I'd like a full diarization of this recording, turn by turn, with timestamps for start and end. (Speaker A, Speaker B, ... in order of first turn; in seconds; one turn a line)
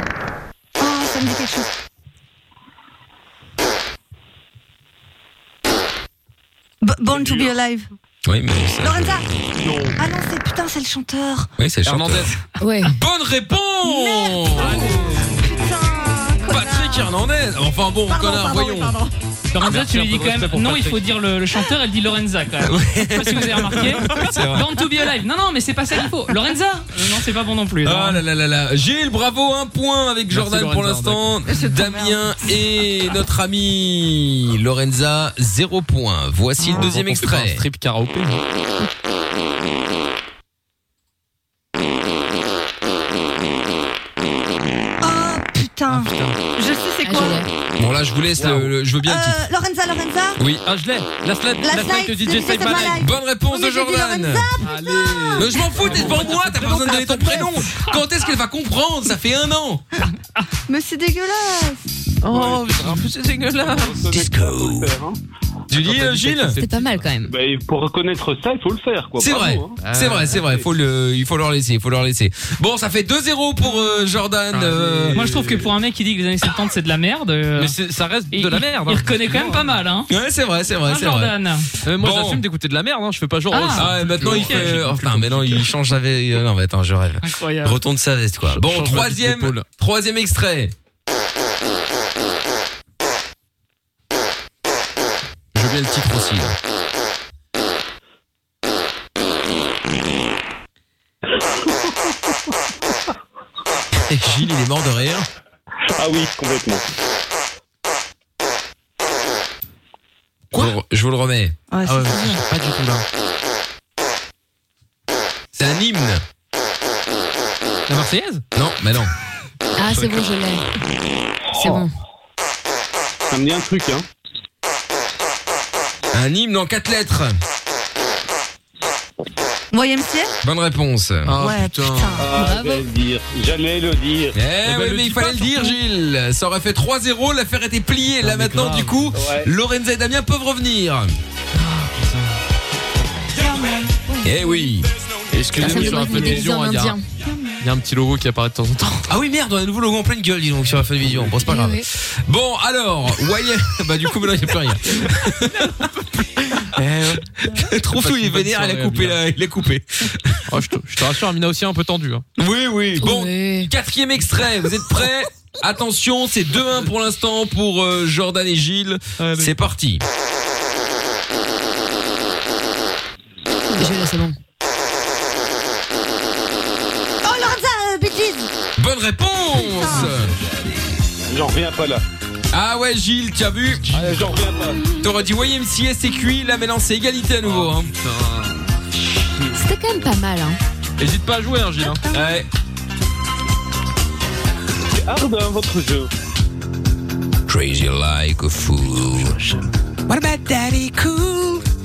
Speaker A: 0.8-1.7
Speaker A: 6.8-7.9
Speaker B: 7.1-7.5
Speaker C: 8.2-9.2
Speaker A: 8.8-9.3
Speaker B: 9.6-9.9
Speaker A: 10.0-11.5
Speaker C: 11.6-12.3
Speaker D: 11.8-12.3
Speaker E: 12.6-12.9
Speaker C: 12.8-14.9
Speaker A: 13.8-17.1
Speaker D: 14.6-15.7
Speaker C: 16.4-19.0
Speaker A: 18.1-19.1
Speaker F: 19.5-28.2
Speaker D: 19.6-21.0
Speaker C: 22.6-24.6
Speaker D: 24.0-24.3
Speaker C: 27.8-37.6
Speaker D: 30.3-31.4
Speaker A: 31.4-32.2
Speaker D: 36.6-38.4
Speaker A: 45.0-47.5
Speaker D: 45.9-46.4
Speaker E: 47.0-47.5
Speaker C: 47.8-49.4
Speaker B: 48.4-48.6
Speaker A: 49.0-50.4
Speaker D: 50.5-53.0
Speaker A: 51.6-56.2
Speaker C: 52.8-54.5
Speaker D: 54.6-57.7
Speaker C: 55.4-59.8
Speaker A: 60.7-61.9
Speaker D: 62.2-64.1
Speaker B: 62.3-65.2
Speaker C: 64.1-64.9
Speaker C: 65.7-66.6
Speaker D: 65.7-67.0
Speaker E: 66.6-67.3
Speaker B: 67.2-69.8
Speaker C: 69.2-75.2
Speaker D: 69.8-70.5
Speaker B: 70.3-70.6
Speaker D: 74.5-75.7
Speaker F: 75.1-77.7
Speaker D: 77.5-79.6
Speaker F: 78.3-80.1
Speaker C: 80.1-81.3
Speaker F: 80.8-81.7
Speaker D: 81.8-85.7
Speaker C: 81.9-82.4
Speaker F: 83.5-84.8
Speaker C: 83.7-90.7
Speaker F: 87.2-87.8
Speaker D: 88.5-89.7
Speaker C: 95.5-96.5
Speaker C: 103.9-105.3
Speaker B: 106.0-106.8
Speaker C: 110.5-111.5
Speaker A: 111.7-112.4
Speaker D: 111.8-113.0
Speaker C: 115.5-116.2
Speaker D: 117.9-118.4
Speaker C: 118.5-119.1
Speaker E: 119.8-120.6
Speaker E: 121.5-121.9
Speaker B: 123.3-124.0
Speaker C: 126.1-127.4
Speaker A: 129.7-130.3
Speaker C: 130.4-131.3
Speaker D: 131.2-132.2
Speaker A: 131.4-132.3
Speaker B: 132.2-134.4
Speaker E: 132.3-132.8
Speaker C: 134.3-141.2
Speaker D: 134.6-135.7
Speaker D: 138.2-139.2
Speaker B: 139.1-139.5
Speaker D: 141.6-142.3
Speaker A: 143.4-144.7
Speaker C: 144.2-144.9
Speaker D: 145.3-147.0
Speaker E: 145.6-147.0
Speaker A: 145.8-146.5
Speaker A: 147.2-147.6
Speaker D: 147.6-149.0
Speaker C: 149.1-155.7
Speaker E: 151.4-151.8
Speaker D: 155.4-157.2
Speaker C: 157.4-160.4
Speaker D: 157.9-159.2
Speaker D: 160.5-162.2
Speaker C: 162.4-170.0
Speaker E: 163.0-163.7
Speaker D: 169.2-169.5
Speaker E: 173.8-174.3
Speaker A: 177.2-178.5
Speaker C: 178.8-180.3
Speaker A: 179.6-180.1
Speaker B: 181.3-182.0
Speaker C: 182.5-184.0
Speaker D: 183.8-184.3
Speaker B: 183.9-184.8
Speaker C: 185.0-187.9
Speaker D: 187.4-188.6
Speaker E: 189.5-190.6
Speaker D: 191.0-192.1
Speaker C: 192.1-192.5
Speaker B: 194.9-196.1
Speaker C: 197.5-199.4
Speaker D: 199.3-199.6